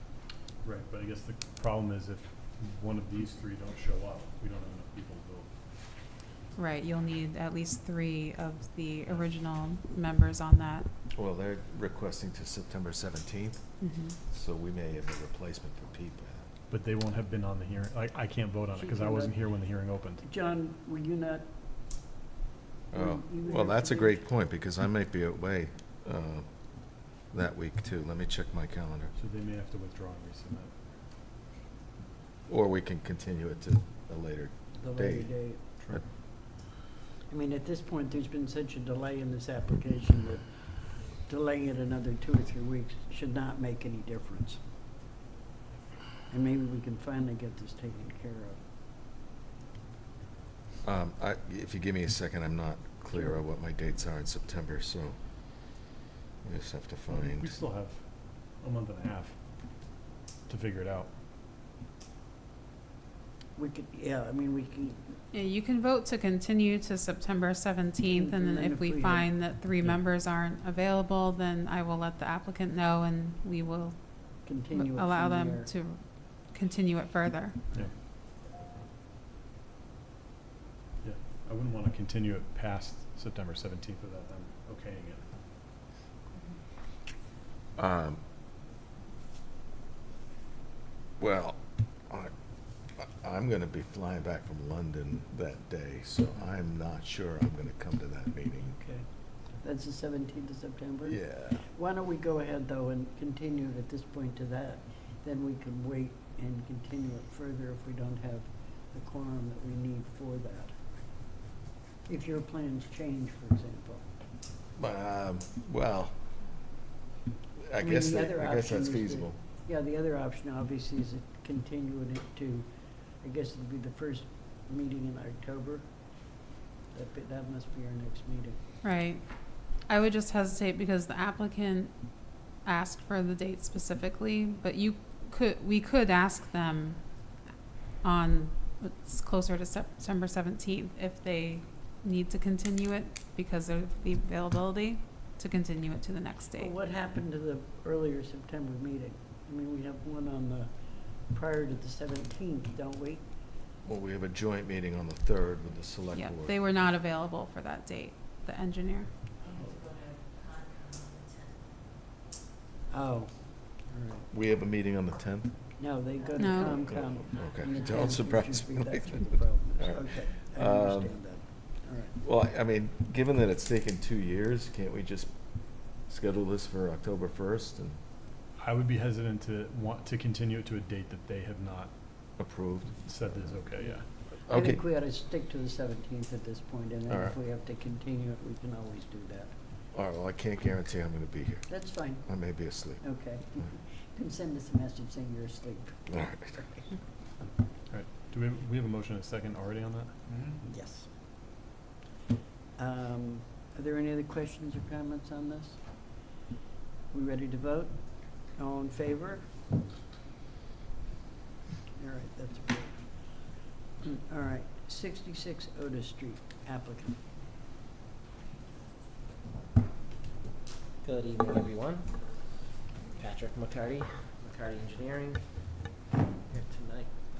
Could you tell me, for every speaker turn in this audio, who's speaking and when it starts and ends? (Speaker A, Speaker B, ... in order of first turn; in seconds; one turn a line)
Speaker A: 0.6-5.5
Speaker B: 6.6-10.9
Speaker C: 11.1-13.6
Speaker B: 13.8-14.2
Speaker C: 14.3-16.4
Speaker A: 16.7-20.2
Speaker D: 18.7-19.3
Speaker D: 20.2-21.4
Speaker D: 22.9-24.2
Speaker C: 22.9-26.5
Speaker C: 27.0-29.1
Speaker A: 29.1-30.7
Speaker C: 32.5-36.0
Speaker D: 34.8-35.6
Speaker D: 37.3-44.6
Speaker D: 46.3-48.6
Speaker C: 50.8-55.2
Speaker D: 53.1-53.4
Speaker C: 56.4-57.5
Speaker A: 57.1-59.4
Speaker A: 60.5-61.1
Speaker D: 63.5-65.2
Speaker B: 65.3-77.6
Speaker D: 68.0-69.3
Speaker D: 74.4-75.7
Speaker A: 81.0-85.3
Speaker C: 87.8-88.2
Speaker C: 91.2-92.3
Speaker C: 93.0-98.8
Speaker D: 98.7-99.0
Speaker D: 99.6-110.7
Speaker C: 101.0-101.6
Speaker D: 112.0-114.0
Speaker C: 114.8-116.2
Speaker C: 117.6-119.4
Speaker D: 117.8-122.7
Speaker D: 123.2-125.9
Speaker D: 126.9-128.6
Speaker B: 128.8-129.2
Speaker B: 129.8-132.0
Speaker B: 132.5-137.1
Speaker B: 138.0-146.7
Speaker D: 146.6-153.3
Speaker C: 153.8-156.5
Speaker B: 156.2-159.1
Speaker D: 162.9-164.3
Speaker C: 164.3-165.6
Speaker D: 165.8-172.2
Speaker B: 166.4-166.8
Speaker C: 166.8-171.2
Speaker C: 172.2-175.3
Speaker C: 176.0-178.0
Speaker A: 178.6-181.9
Speaker C: 182.4-183.6
Speaker A: 183.0-184.3
Speaker D: 183.8-189.6
Speaker C: 184.5-184.8
Speaker C: 187.1-187.4
Speaker C: 189.9-191.7
Speaker D: 191.7-192.3
Speaker C: 192.2-193.0
Speaker D: 193.0-196.1
Speaker C: 196.1-196.8
Speaker A: 197.9-200.3
Speaker D: 200.6-201.1
Speaker D: 202.8-206.2
Speaker D: 207.1-209.5
Speaker D: 212.0-217.2
Speaker E: 221.0-222.1
Speaker E: 223.3-225.3